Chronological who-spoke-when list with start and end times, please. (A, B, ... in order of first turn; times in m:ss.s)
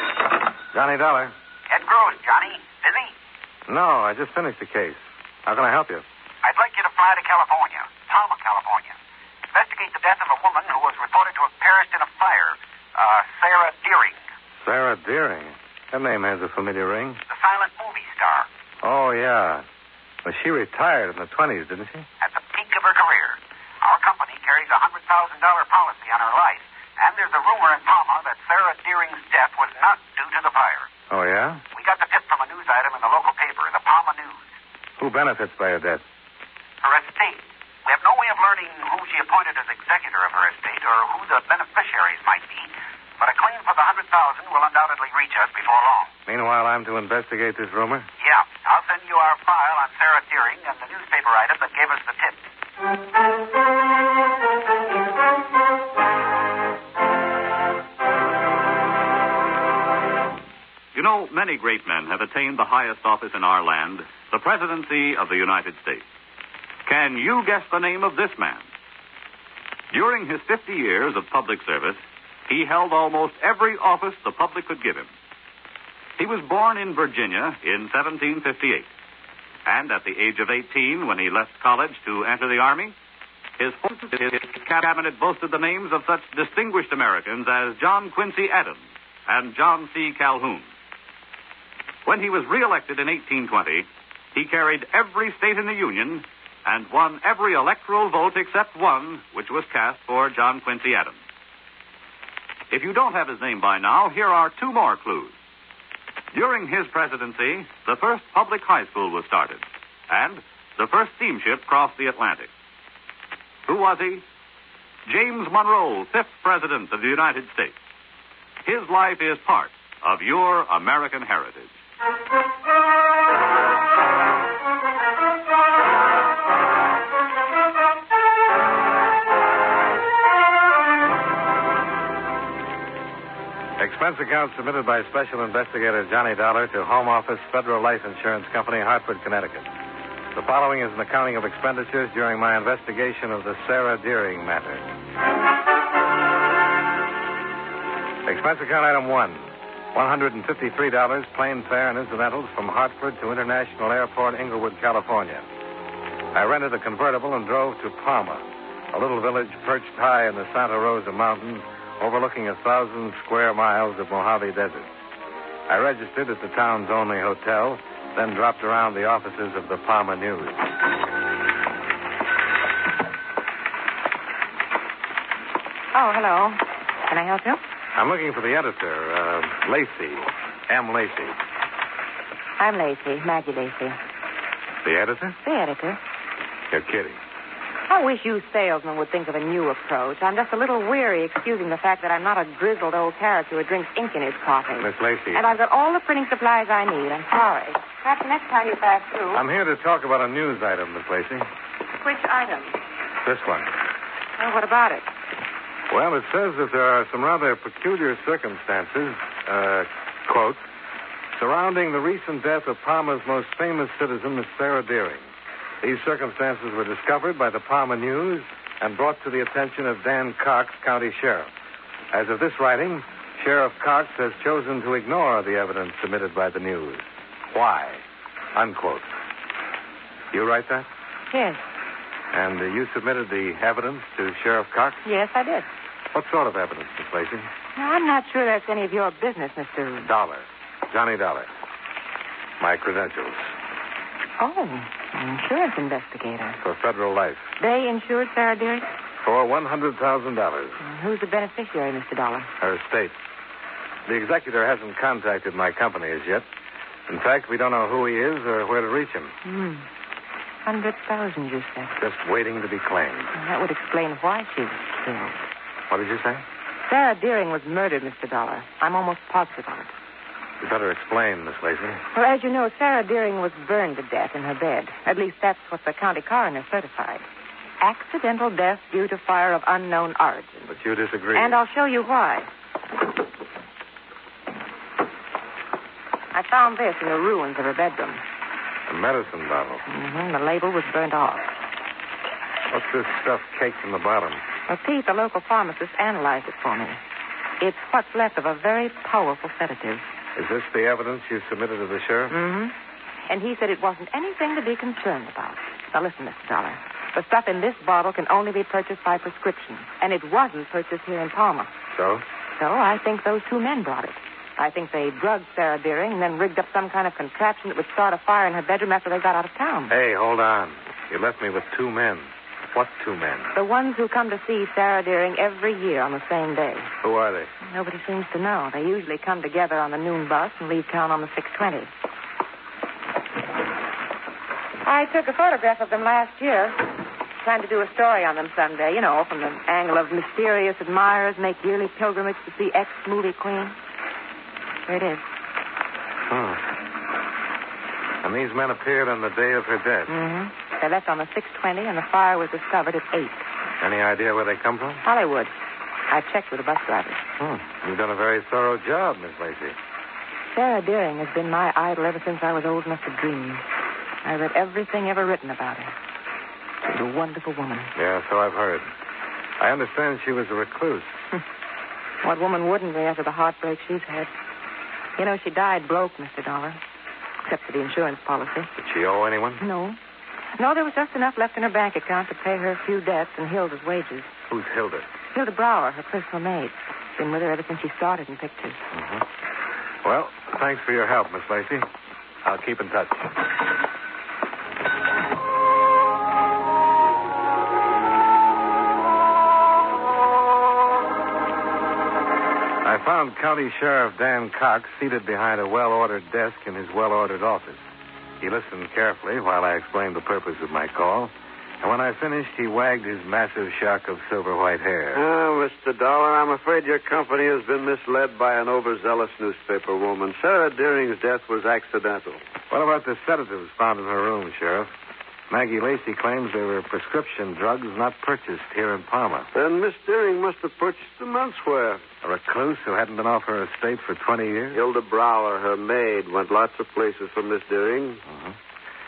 0:00.7-0:01.3 A
0:01.7-0:03.1 B
0:03.7-0:06.0 A
0:06.4-0:09.0 B
0:09.5-0:14.2 B
0:14.6-0:17.2 A
0:17.3-0:18.5 B
0:18.8-0:19.6 A
0:20.2-0:22.1 A
0:22.2-0:30.9 B
0:31.1-0:31.6 A
0:31.7-0:34.4 B
0:35.0-0:36.0 A
0:36.8-0:46.1 B
0:46.2-0:48.1 A
0:48.2-0:52.4 B
1:00.9-1:06.0 C
1:06.8-1:08.6 C
1:09.9-1:15.1 C
1:16.2-1:18.9 C
1:19.6-1:22.9 C
1:23.6-1:30.7 C
1:32.0-1:41.2 C
1:42.7-1:45.3 C
1:46.3-1:52.5 C
1:53.6-1:54.2 C
1:55.1-1:57.7 C
1:58.6-2:01.7 C
2:13.8-2:19.7 A
2:20.3-2:24.9 A
2:28.2-2:35.4 A
2:36.3-2:44.9 A
2:45.7-2:50.6 A
2:55.9-2:57.6 D
2:57.9-3:01.4 A
3:02.6-3:04.0 D
3:04.8-3:05.4 A
3:05.4-3:06.0 D
3:06.7-3:07.2 A
3:07.9-3:19.4 D
3:14.8-3:15.4 A
3:19.3-3:21.4 A
3:22.0-3:22.8 D
3:23.2-3:23.7 A
3:24.4-3:25.1 D
3:25.9-3:30.6 A
3:31.3-3:35.3 A
3:35.8-3:41.5 A
3:42.1-3:49.1 A
3:50.3-3:50.9 A
3:51.3-3:51.6 D
3:52.3-3:55.0 A
3:55.0-3:55.7 D
3:56.1-3:57.5 A
3:57.8-4:00.0 D
4:00.0-4:01.5 A
4:02.6-4:03.5 A
4:04.4-4:06.6 D
4:06.6-4:07.5 A
4:07.6-4:08.9 D
4:09.2-4:10.8 A
4:10.8-4:12.5 D
4:12.6-4:13.2 A
4:14.0-4:16.5 A
4:17.1-4:19.4 A
4:19.4-4:19.9 D
4:20.6-4:22.0 D
4:22.0-4:23.3 A
4:23.3-4:25.4 D
4:25.9-4:26.4 A
4:26.8-4:29.9 D
4:30.6-4:32.0 A
4:32.1-4:37.2 D
4:37.8-4:40.7 D
4:40.7-4:41.6 A
4:41.3-4:42.5 D
4:46.3-4:48.2 D
4:48.9-4:49.8 A
4:49.9-4:51.5 D
4:52.7-4:54.4 A
4:54.7-4:57.0 D
4:57.6-5:00.0 D
5:00.4-5:02.4 A
5:02.3-5:02.7 D
5:03.3-5:11.7 D
5:11.9-5:12.2 A
5:12.6-5:19.9 D
5:19.9-5:23.5 A
5:23.5-5:26.9 D
5:27.0-5:27.5 A
5:27.6-5:31.9 D
5:34.8-5:43.8 D
5:44.9-5:45.2 D
5:46.3-5:46.6 A
5:48.2-5:50.1 A
5:50.1-5:53.4 D
5:53.8-5:55.0 A
5:55.0-5:55.5 D
5:56.1-5:57.2 D
5:57.4-5:59.8 A
6:00.5-6:03.6 D
6:04.2-6:05.9 D
6:06.8-6:07.9 D
6:07.9-6:08.9 A
6:09.6-6:11.2 A
6:12.2-6:14.3 D
6:15.2-6:16.8 D
6:17.4-6:18.7 D
6:18.8-6:19.6 A
6:19.6-6:20.0 D
6:20.5-6:24.3 D
6:24.5-6:25.1 A
6:25.3-6:28.9 D
6:28.9-6:29.2 A
6:30.0-6:31.9 A
6:32.4-6:33.3 A
6:42.8-6:47.8 A
6:48.4-6:55.2 A
6:55.1-7:02.4 E
7:02.7-7:04.9 A
7:05.5-7:09.5 A
7:09.5-7:12.0 E
7:12.2-7:14.8 A
7:14.7-7:18.2 E